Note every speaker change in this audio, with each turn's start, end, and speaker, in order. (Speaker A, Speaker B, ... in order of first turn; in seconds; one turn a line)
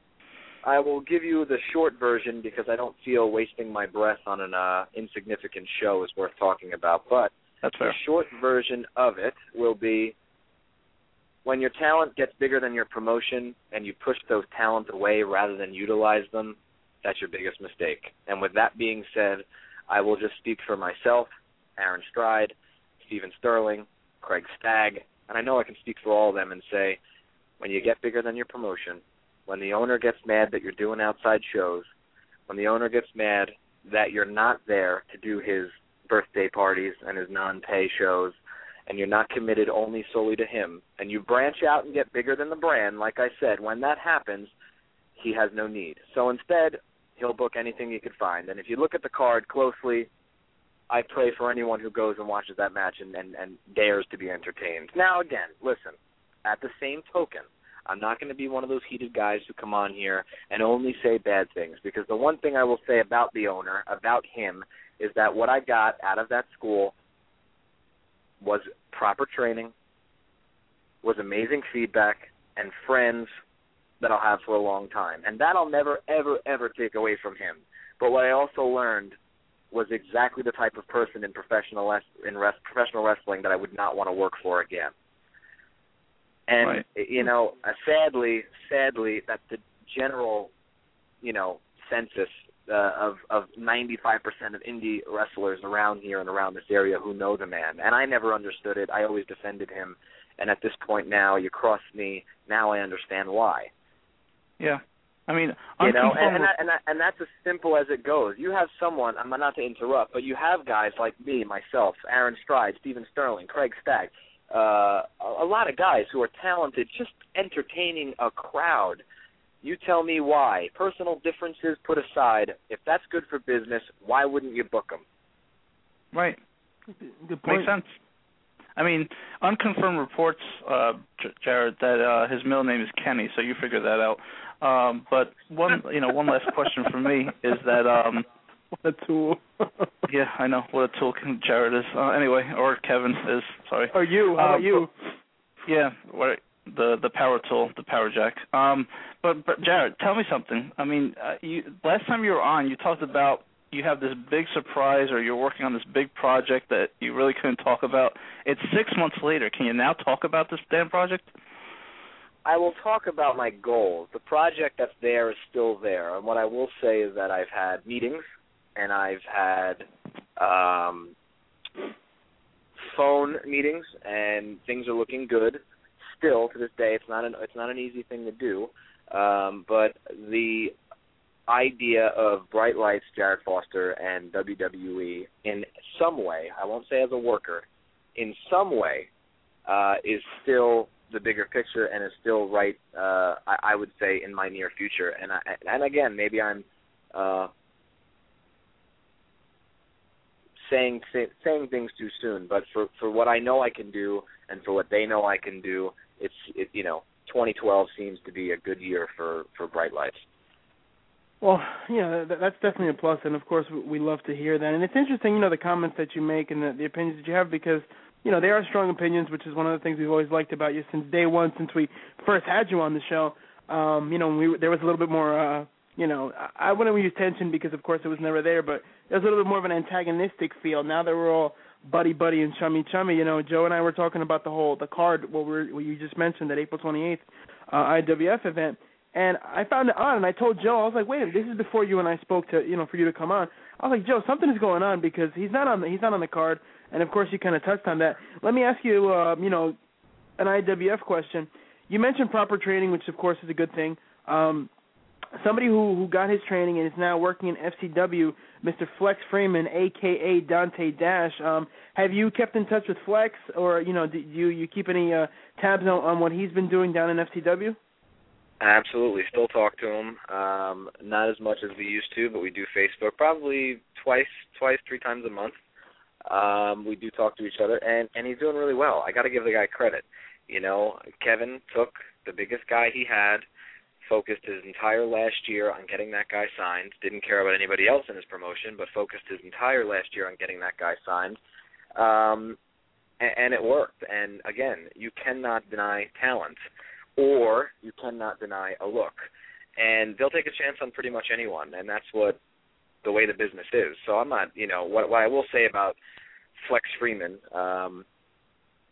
Speaker A: 0.6-10.2
Speaker B: 7.6-8.0
Speaker A: 11.4-27.0
Speaker A: 27.6-31.9
Speaker A: 32.5-38.4
Speaker A: 38.9-44.5
Speaker A: 45.2-50.1
Speaker A: 50.9-66.9
Speaker A: 68.4-69.7
Speaker A: 71.0-73.3
Speaker A: 74.0-79.2
Speaker A: 79.7-84.9
Speaker A: 86.5-90.5
Speaker A: 91.2-103.7
Speaker B: 104.6-106.5
Speaker A: 105.8-119.0
Speaker A: 119.6-125.0
Speaker B: 126.1-126.4
Speaker C: 127.0-127.7
Speaker B: 127.5-127.9
Speaker B: 128.8-138.3
Speaker C: 138.8-139.9
Speaker B: 140.1-144.9
Speaker C: 143.9-144.9
Speaker B: 145.7-161.3
Speaker A: 162.4-168.2
Speaker A: 168.8-169.9
Speaker A: 170.4-171.1
Speaker A: 172.8-175.6
Speaker A: 176.1-180.8
Speaker A: 181.5-187.7
Speaker A: 188.2-189.1
Speaker A: 189.7-197.5
Speaker A: 200.6-210.2
Speaker C: 211.4-249.8
Speaker C: 250.4-254.7
Speaker C: 255.4-267.8
Speaker A: 268.6-275.6
Speaker A: 276.3-283.5
Speaker A: 284.0-291.4
Speaker A: 292.0-292.6
Speaker A: 293.2-296.6
Speaker A: 297.2-302.4
Speaker A: 303.0-306.0
Speaker A: 306.6-308.1